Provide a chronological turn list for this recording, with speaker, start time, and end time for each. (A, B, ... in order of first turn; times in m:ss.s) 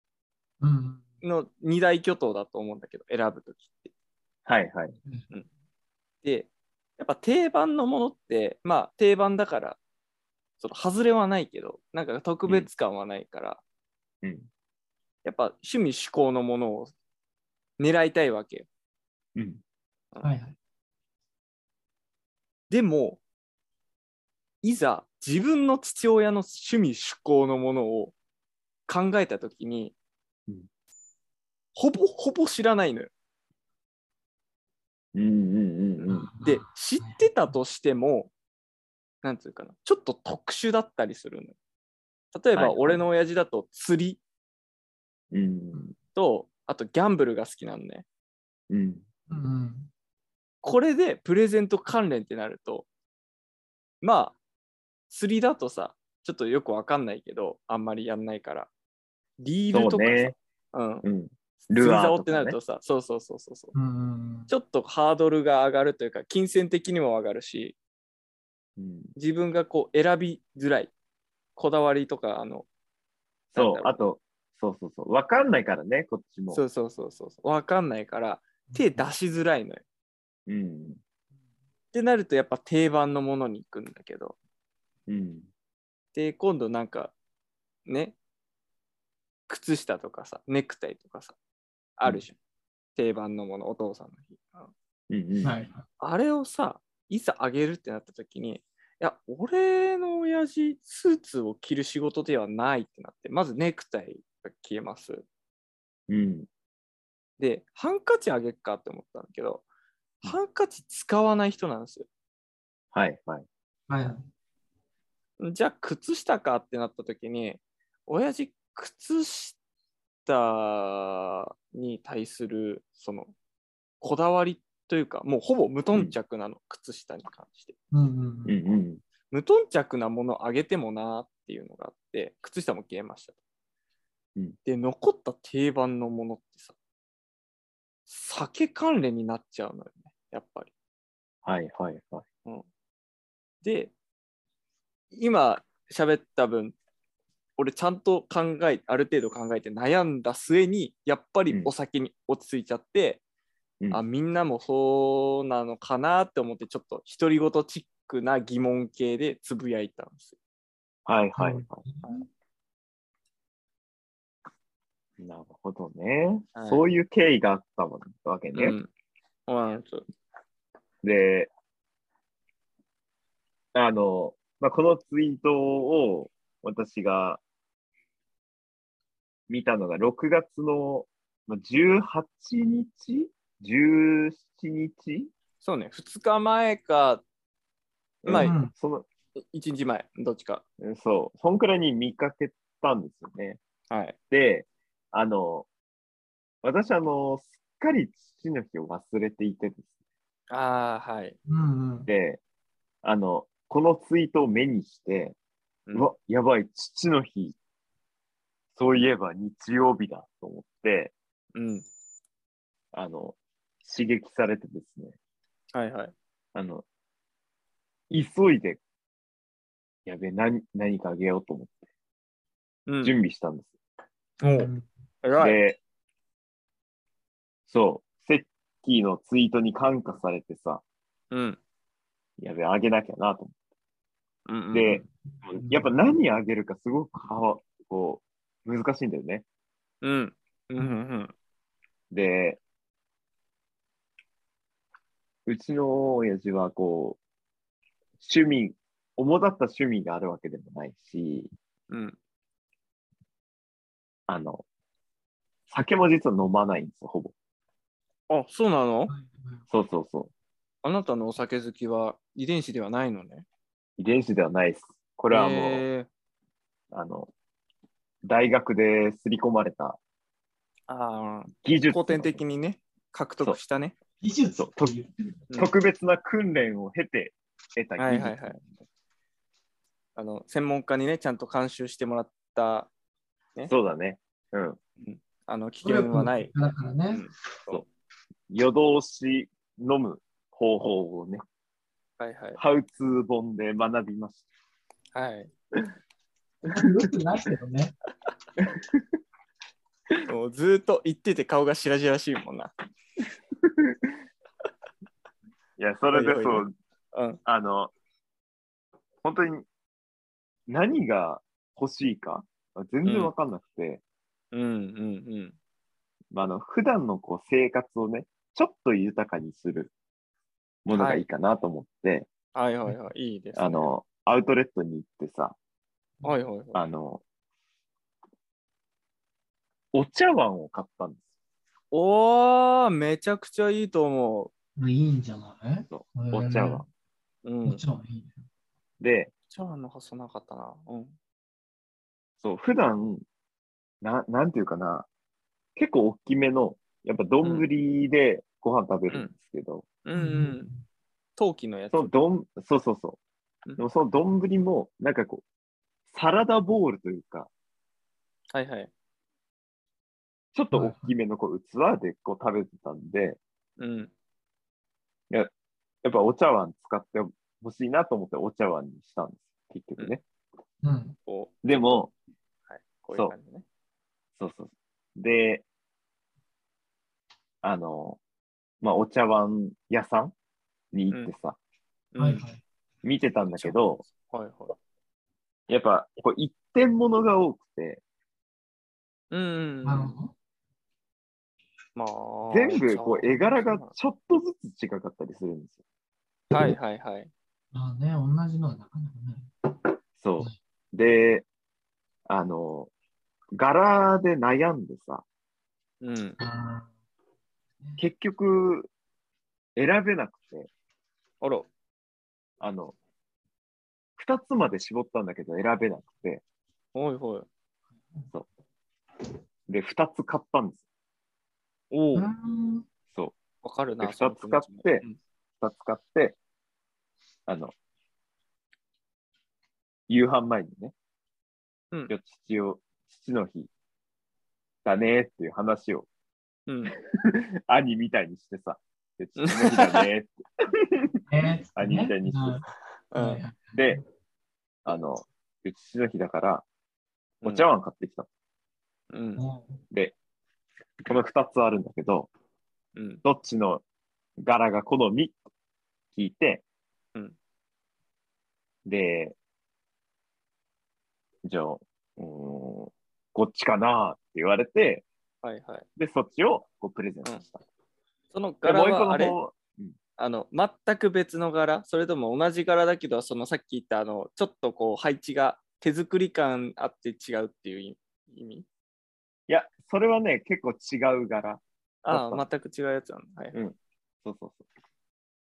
0:00.6-0:01.0 A
0:01.2-0:03.9 B
0:04.5-0:05.0 C
0:06.2-0:09.8 B
0:10.6-0:13.6 B
0:14.2-0:14.5 C
0:15.2-0:16.9 B
0:17.8-0:18.7 B
0:19.4-0:19.6 C
0:20.2-0:20.6 A
0:22.7-0:23.2 B
0:24.6-0:28.2 B
0:28.9-0:30.0 B
0:31.8-0:33.1 B
0:35.1-0:36.3 C
0:36.0-0:38.3 B
0:36.1-0:37.3 A
0:39.2-0:41.6 B
0:42.3-0:44.2 B
0:42.6-0:43.0 C
0:45.3-0:45.9 C
0:46.1-0:48.0 B
0:48.7-0:49.0 C
0:49.3-0:49.9 A
0:50.6-0:52.9 B
0:54.0-0:54.4 B
0:55.1-0:58.7 B
0:59.4-1:01.1 B
0:59.7-1:00.4 C
1:01.0-1:02.6 C
1:01.7-1:03.7 B
1:03.7-1:04.5 A
1:04.5-1:07.8 B
1:08.8-1:09.1 C
1:09.2-1:10.9 B
1:11.6-1:12.7 B
1:13.5-1:16.6 C
1:13.6-1:14.0 B
1:16.5-1:19.8 B
1:20.5-1:21.0 C
1:21.9-1:24.4 B
1:25.1-1:25.5 C
1:26.1-1:27.1 B
1:27.9-1:28.2 B
1:29.5-1:31.4 B
1:32.0-1:32.4 B
1:33.0-1:34.7 B
1:35.1-1:35.5 C
1:35.4-1:35.8 A
1:36.0-1:45.2 B
1:46.1-1:46.5 C
1:47.4-1:49.6 B
1:50.2-1:52.1 B
1:52.9-1:53.5 C
1:53.9-1:54.2 A
1:55.4-1:59.6 B
2:00.2-2:03.3 B
2:04.0-2:07.7 B
2:07.9-2:08.6 A
2:08.5-2:09.0 C
2:09.3-2:13.4 B
2:14.6-2:16.8 B
2:18.1-2:20.7 B
2:21.4-2:22.3 C
2:23.6-2:23.9 B
2:25.1-2:26.8 B
2:27.6-2:33.2 B
2:33.9-2:40.4 B
2:41.1-2:41.8 C
2:41.3-2:42.3 A
2:45.2-2:48.8 C
2:46.6-2:46.8 B
2:48.5-2:48.9 B
2:49.5-2:50.1 B
2:51.0-2:51.5 C
2:53.7-2:57.4 C
2:59.5-3:05.3 C
3:05.6-3:07.2 B
3:08.2-3:09.1 C
3:08.3-3:08.6 B
3:08.4-3:08.7 A
3:09.4-3:10.6 B
3:10.8-3:13.6 C
3:13.9-3:14.2 B
3:14.3-3:15.7 C
3:16.6-3:19.9 C
3:20.5-3:21.4 B
3:21.5-3:22.1 A
3:22.1-3:22.4 C
3:23.0-3:25.4 C
3:25.9-3:27.6 C
3:28.8-3:31.1 C
3:31.6-3:31.9 B
3:32.9-3:35.2 C
3:35.7-3:36.1 B
3:36.5-3:36.8 C
3:38.1-3:38.8 C
3:40.1-3:41.8 C
3:42.9-3:43.2 B
3:43.0-3:43.7 C
3:44.4-3:44.7 B
3:44.6-3:44.8 A
3:45.2-3:45.6 B
3:45.4-3:45.8 C
3:47.7-3:50.8 C
3:51.3-3:51.6 B
3:52.4-3:53.5 C
3:54.5-3:55.0 B
3:54.7-3:59.4 C
3:55.6-3:55.9 A
4:00.0-4:01.3 B
4:02.1-4:02.6 C
4:05.5-4:07.2 C
4:08.2-4:11.5 C
4:11.9-4:12.2 B
4:14.3-4:14.6 C
4:15.7-4:17.3 C
4:18.3-4:19.1 B
4:19.1-4:19.6 A
4:19.7-4:20.3 C
4:20.8-4:23.5 B
4:24.0-4:25.8 C
4:25.3-4:26.1 B
4:26.9-4:27.3 C
4:28.2-4:30.0 C
4:30.9-4:34.0 B
4:31.6-4:32.4 C
4:34.2-4:35.1 A
4:34.6-4:34.9 C
4:35.5-4:38.7 C
4:38.0-4:38.6 B
4:40.2-4:42.9 B
4:43.7-4:44.8 C
4:45.0-4:46.5 B
4:45.8-4:47.2 A
4:47.1-4:47.8 B
4:48.5-4:51.4 C
4:52.2-4:52.6 B
4:52.6-4:54.5 C
4:55.1-4:55.5 B
4:56.7-4:58.0 A
4:58.6-4:59.0 C
5:00.3-5:02.7 B
5:03.6-5:04.1 C
5:05.8-5:06.7 C
5:06.1-5:07.4 B
5:07.4-5:07.9 C
5:09.2-5:09.7 C
5:10.7-5:14.0 C
5:13.0-5:13.3 B
5:14.5-5:15.6 B
5:16.3-5:19.9 C
5:20.8-5:22.3 C
5:21.0-5:21.2 B
5:22.5-5:23.9 B
5:23.6-5:25.6 C
5:26.2-5:26.8 B
5:26.7-5:27.2 C
5:29.9-5:31.3 C
5:31.9-5:34.5 B
5:34.8-5:36.8 A
5:35.9-5:36.9 C
5:37.4-5:37.8 B
5:37.6-5:38.5 A
5:39.0-5:39.3 C
5:39.5-5:41.2 B
5:42.4-5:43.2 C
5:44.0-5:45.1 C
5:45.8-5:49.9 C
5:47.4-5:47.7 B
5:50.0-5:50.7 B
5:50.2-5:50.8 A
5:51.4-5:52.1 B
5:51.9-5:53.2 C
5:53.8-5:55.4 C
5:56.1-5:57.5 C
5:58.5-5:58.9 B
6:00.5-6:03.4 C
6:00.7-6:01.1 A
6:03.8-6:04.1 B
6:06.0-6:10.2 C
6:10.8-6:11.2 A
6:11.3-6:12.0 B
6:11.6-6:12.1 C
6:12.7-6:13.6 B
6:14.4-6:15.6 C
6:17.6-6:18.2 C
6:18.8-6:20.3 C
6:20.9-6:21.6 C
6:22.1-6:22.4 B
6:22.2-6:22.6 A
6:23.0-6:24.0 C
6:23.5-6:24.8 B
6:25.7-6:28.0 C
6:29.3-6:30.1 B
6:29.8-6:30.3 A
6:32.0-6:33.9 B
6:32.5-6:35.8 C
6:36.5-6:37.3 B
6:37.7-6:39.9 A
6:40.2-6:41.5 C
6:42.3-6:42.9 C
6:43.5-6:45.2 C
6:46.0-6:46.4 B
6:46.4-6:46.9 A
6:48.0-6:48.9 C
6:49.8-6:50.7 C
6:51.4-6:51.7 B
6:52.6-6:53.0 C
6:54.2-6:56.4 C
6:56.9-6:57.5 B
6:59.7-7:00.8 C
7:01.9-7:02.3 B
7:02.2-7:02.8 A
7:03.1-7:03.4 C
7:03.6-7:05.2 B
7:04.0-7:05.0 C
7:05.6-7:06.4 C
7:07.5-7:07.7 C
7:10.1-7:10.9 C
7:12.1-7:13.7 C
7:14.8-7:16.1 C
7:16.7-7:17.0 B
7:17.1-7:21.2 C
7:19.4-7:20.1 B
7:21.3-7:24.0 A
7:21.8-7:22.6 C
7:23.1-7:23.4 B
7:23.8-7:24.0 C
7:24.8-7:26.7 C
7:27.4-7:28.3 C
7:29.1-7:29.4 B
7:29.4-7:29.8 A
7:29.9-7:30.2 C
7:31.1-7:32.3 C
7:33.0-7:33.2 B
7:33.2-7:33.8 C
7:34.4-7:35.4 C
7:36.1-7:36.6 C
7:38.9-7:39.4 C
7:41.4-7:45.1 C
7:45.4-7:45.9 B
7:46.0-7:47.6 C
7:48.3-7:49.4 B
7:48.6-7:50.0 C
7:50.2-7:58.7 B
7:59.5-8:02.5 C
8:02.0-8:03.6 B
8:03.5-8:04.6 C